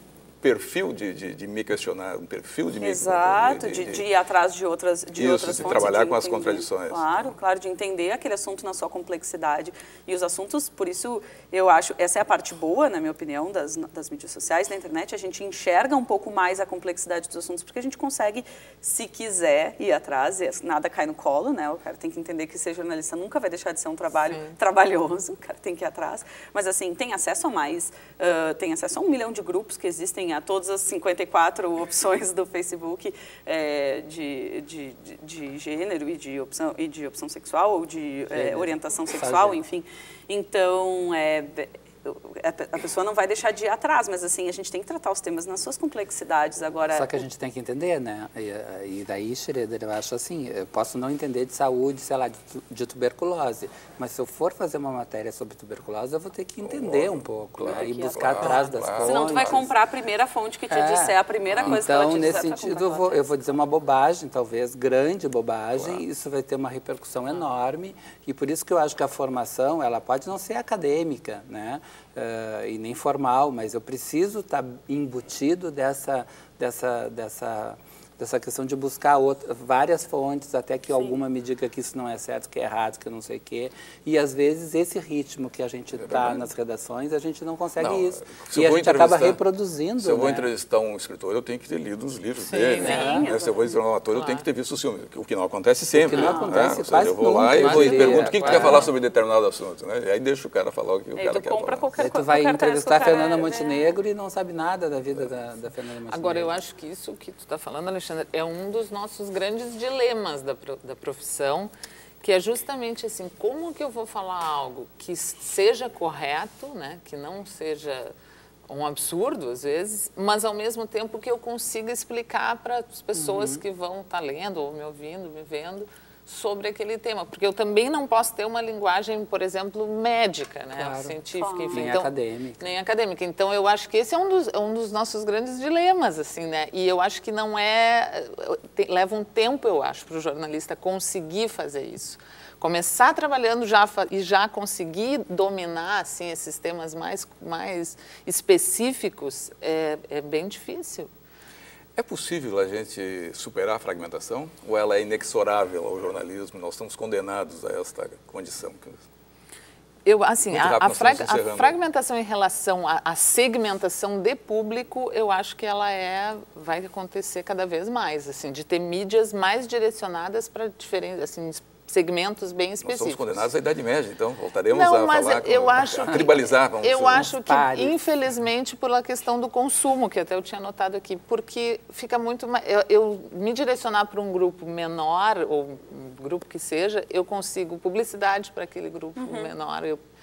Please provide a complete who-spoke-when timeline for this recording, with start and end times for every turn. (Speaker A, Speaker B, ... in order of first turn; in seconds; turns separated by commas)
Speaker A: 0.4-4.0, Speaker B: 2.8-47.2, Speaker A: 5.2-7.3, Speaker C: 38.3-39.6, Speaker C: 46.9-59.7, Speaker A: 56.6-59.6, Speaker B: 57.7-58.2, Speaker B: 59.0-63.2, Speaker C: 60.7-90.5, Speaker A: 61.5-61.8, Speaker A: 65.7-66.0, Speaker B: 80.9-81.2, Speaker A: 86.0-86.5, Speaker A: 87.8-89.4, Speaker A: 90.0-101.9, Speaker D: 92.4-93.3, Speaker B: 92.8-93.8, Speaker C: 92.8-93.3, Speaker D: 94.1-94.5, Speaker C: 95.9-98.9, Speaker B: 96.1-96.6, Speaker D: 97.5-98.9, Speaker B: 101.1-104.0, Speaker C: 102.0-106.6, Speaker D: 106.1-118.1, Speaker D: 118.7-151.1, Speaker C: 123.1-123.6, Speaker C: 130.7-131.2, Speaker B: 131.4-131.9, Speaker C: 131.7-132.7, Speaker A: 151.9-159.0, Speaker D: 160.0-173.5, Speaker A: 160.4-161.8, Speaker A: 172.8-177.4, Speaker D: 174.7-190.0, Speaker C: 177.1-178.0, Speaker B: 189.2-189.5